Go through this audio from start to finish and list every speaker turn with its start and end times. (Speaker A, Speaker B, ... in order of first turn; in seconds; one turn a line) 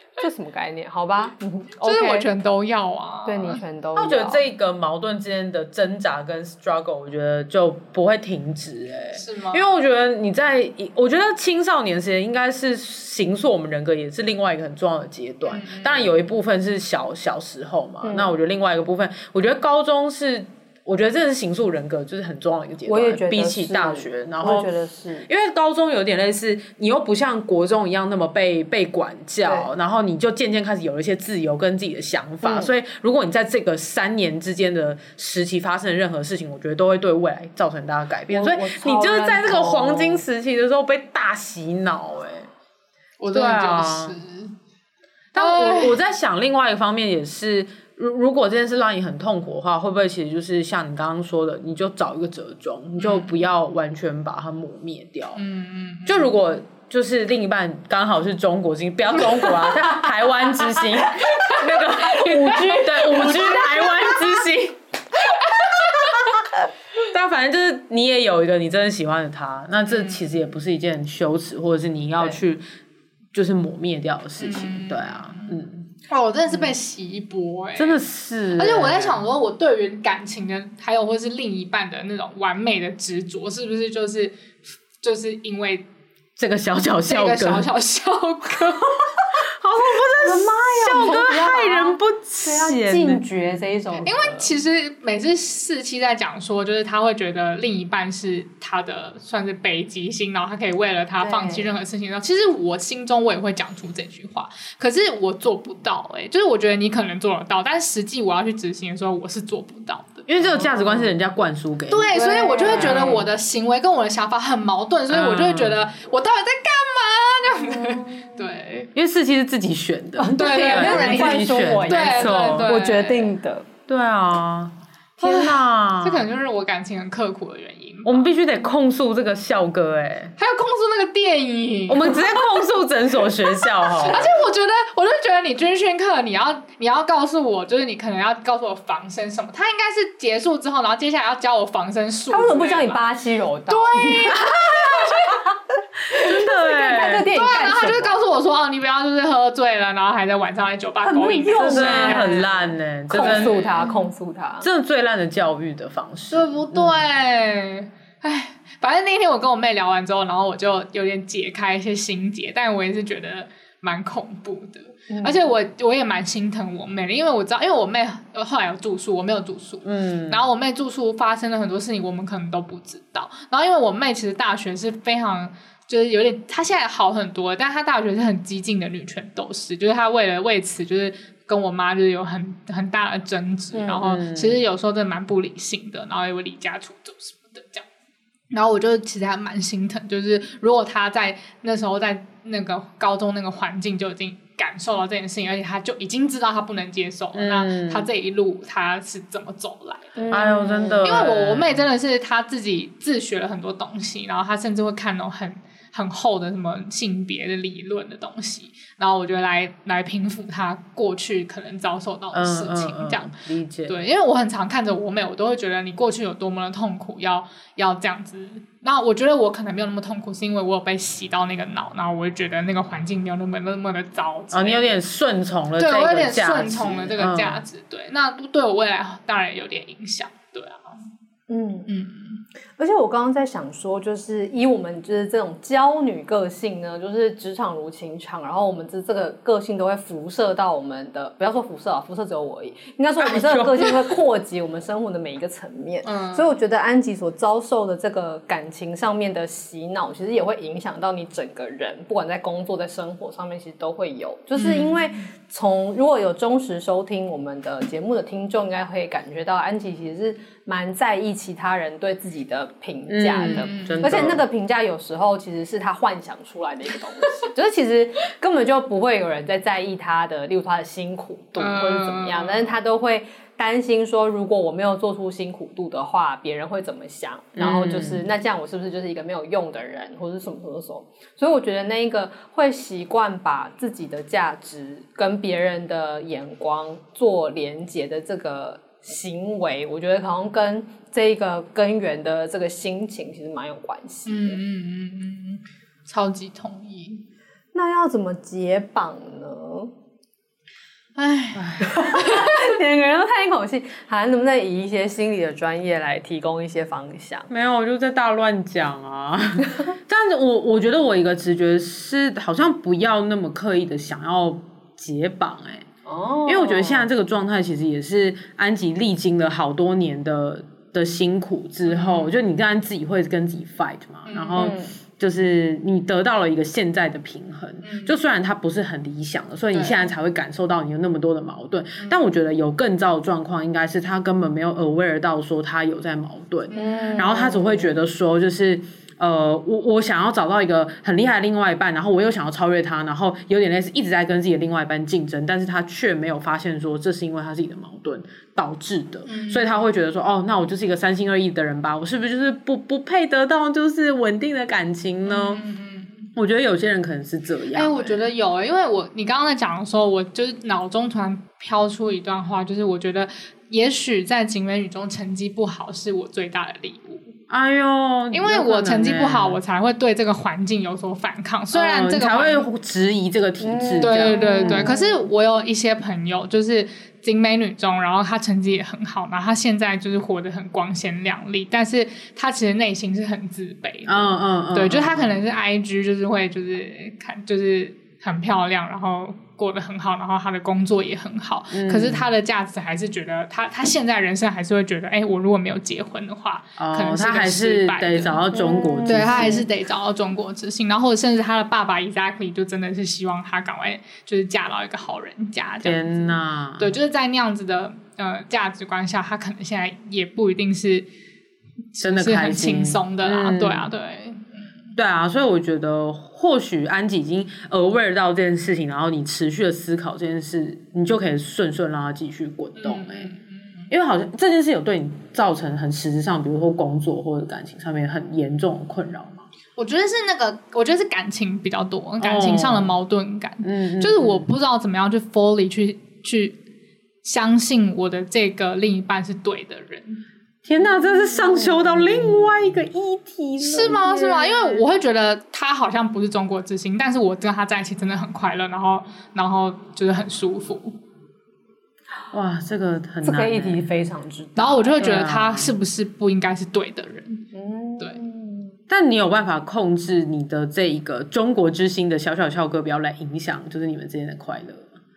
Speaker A: 0.2-2.3
Speaker B: 1.8-3.6
Speaker A: 3.2-4.4
Speaker C: 4.0-24.7
Speaker B: 9.1-9.6
Speaker B: 15.5-16.1
Speaker A: 18.0-18.3
Speaker A: 22.9-25.3
Speaker C: 25.2-42.5
Speaker A: 29.4-29.7
Speaker A: 32.4-32.7
Speaker A: 38.3-40.2
Speaker B: 43.2-44.5
Speaker C: 43.3-44.1
Speaker C: 45.3-55.4
Speaker B: 45.4-46.0
Speaker B: 53.0-53.3
Speaker B: 55.4-56.3
Speaker C: 56.0-64.8
Speaker A: 62.0-64.4
Speaker B: 62.1-63.6
Speaker C: 67.0-72.6
Speaker B: 69.9-70.2
Speaker C: 73.3-75.9
Speaker B: 74.4-75.5
Speaker B: 76.1-78.0
Speaker C: 77.8-79.2
Speaker B: 78.5-84.3
Speaker B: 85.0-85.8
Speaker C: 86.4-87.7
Speaker B: 87.0-88.9
Speaker C: 89.6-93.2
Speaker A: 90.2-94.5
Speaker B: 94.0-110.3
Speaker A: 101.2-101.7
Speaker C: 110.3-113.2
Speaker A: 110.5-111.1
Speaker B: 111.9-118.9
Speaker A: 112.1-113.2
Speaker C: 115.1-115.8
Speaker A: 117.7-118.1
Speaker C: 118.9-122.8
Speaker A: 120.2-123.7
Speaker B: 120.3-123.3
Speaker C: 123.9-126.2
Speaker B: 125.2-128.3
Speaker C: 128.0-130.3
Speaker B: 130.4-132.3
Speaker C: 131.9-134.3
Speaker B: 134.0-143.0
Speaker A: 142.3-148.1
Speaker B: 143.7-145.4
Speaker C: 146.1-147.3
Speaker B: 147.3-152.5
Speaker A: 151.0-152.5
Speaker C: 151.6-153.6
Speaker A: 153.1-154.7
Speaker B: 153.1-153.9
Speaker C: 154.6-157.0
Speaker B: 156.3-187.8
Speaker A: 165.1-165.4
Speaker C: 169.8-170.4
Speaker C: 183.9-184.6
Speaker B: 188.5-200.2
Speaker C: 197.3-198.1
Speaker A: 200.2-201.2
Speaker C: 200.3-201.8
Speaker B: 201.0-213.3
Speaker C: 212.3-213.9
Speaker B: 213.9-224.9
Speaker C: 224.5-227.6
Speaker B: 225.8-230.9
Speaker A: 231.5-231.9
Speaker B: 231.9-232.4
Speaker A: 232.8-294.6
Speaker C: 243.2-244.2
Speaker B: 246.0-246.5
Speaker B: 254.6-255.2
Speaker C: 263.1-264.4
Speaker B: 263.4-264.1
Speaker B: 271.6-272.7
Speaker C: 277.6-278.2
Speaker B: 294.2-297.2
Speaker A: 297.7-299.9
Speaker B: 301.2-302.6
Speaker C: 301.5-302.2
Speaker A: 301.9-307.5
Speaker C: 307.5-315.9
Speaker A: 316.1-317.1
Speaker C: 316.4-355.6
Speaker B: 321.9-322.4
Speaker B: 324.3-324.7
Speaker A: 324.6-324.9
Speaker B: 327.8-328.1
Speaker B: 329.7-330.0
Speaker B: 336.7-337.2
Speaker A: 336.7-337.9
Speaker B: 349.3-349.7
Speaker B: 355.2-356.3
Speaker C: 356.4-358.2
Speaker B: 357.7-367.3
Speaker C: 367.5-369.6
Speaker B: 368.3-372.6
Speaker C: 371.7-374.9
Speaker A: 373.6-375.2
Speaker B: 374.0-398.4
Speaker C: 384.1-385.3
Speaker C: 391.7-392.3
Speaker C: 396.8-399.6
Speaker A: 398.5-399.6
Speaker B: 399.0-411.1
Speaker C: 405.8-406.9
Speaker B: 411.9-414.7
Speaker C: 412.0-413.9
Speaker C: 414.9-423.3
Speaker B: 422.8-423.9
Speaker C: 423.9-429.5
Speaker B: 429.8-436.6
Speaker C: 432.2-432.9
Speaker C: 433.6-434.4
Speaker B: 437.2-440.2
Speaker C: 440.6-444.8
Speaker B: 443.6-450.9
Speaker C: 452.3-453.9
Speaker A: 453.2-455.2
Speaker B: 454.6-457.4
Speaker C: 455.0-455.7
Speaker A: 457.5-458.8
Speaker C: 458.9-464.9